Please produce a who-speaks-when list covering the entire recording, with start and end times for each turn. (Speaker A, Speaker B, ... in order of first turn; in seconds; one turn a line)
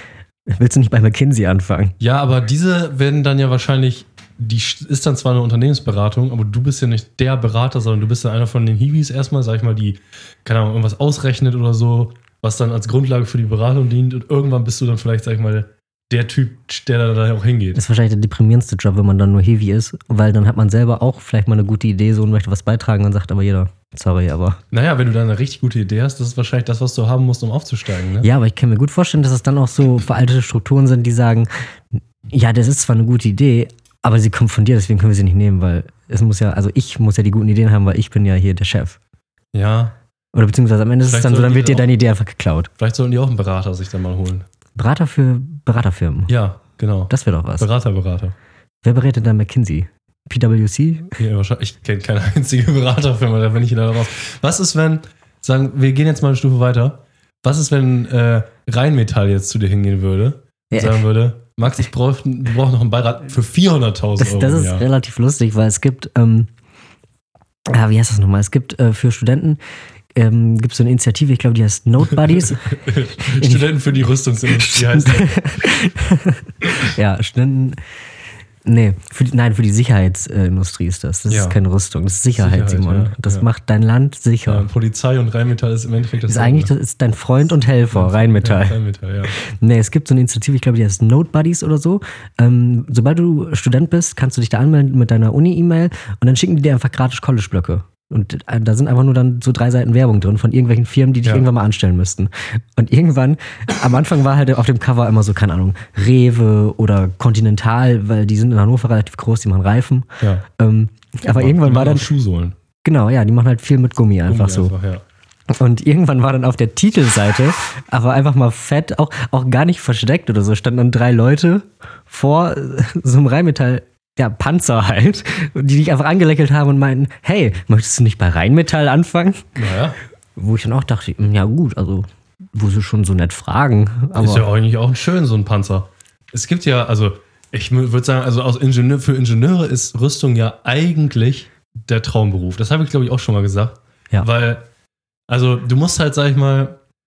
Speaker A: 0.5-1.9
Speaker B: 2.0-17.8
Speaker A: 17.7-24.6
Speaker B: 24.7-28.3
Speaker A: 28.2-31.5
Speaker A: 32.3-39.0
Speaker B: 39.5-39.9
Speaker A: 40.3-42.7
Speaker B: 41.0-41.9
Speaker B: 42.8-44.5
Speaker A: 44.7-46.3
Speaker B: 46.3-48.3
Speaker A: 47.1-47.7
Speaker A: 48.8-51.1
Speaker B: 51.2-64.8
Speaker A: 60.7-61.0
Speaker A: 64.2-66.5
Speaker A: 67.7-69.6
Speaker A: 70.1-73.7
Speaker B: 72.3-75.5
Speaker A: 74.5-77.8
Speaker A: 78.6-84.7
Speaker B: 81.3-81.5
Speaker B: 82.3-83.5
Speaker B: 84.5-86.7
Speaker A: 86.3-88.8
Speaker B: 87.9-89.3
Speaker A: 89.3-112.1
Speaker B: 111.3-112.5
Speaker A: 112.8-114.7
Speaker B: 114.3-115.0
Speaker A: 115.5-129.5
Speaker B: 129.6-130.0
Speaker A: 130.3-134.4
Speaker B: 134.1-144.6
Speaker B: 145.3-146.8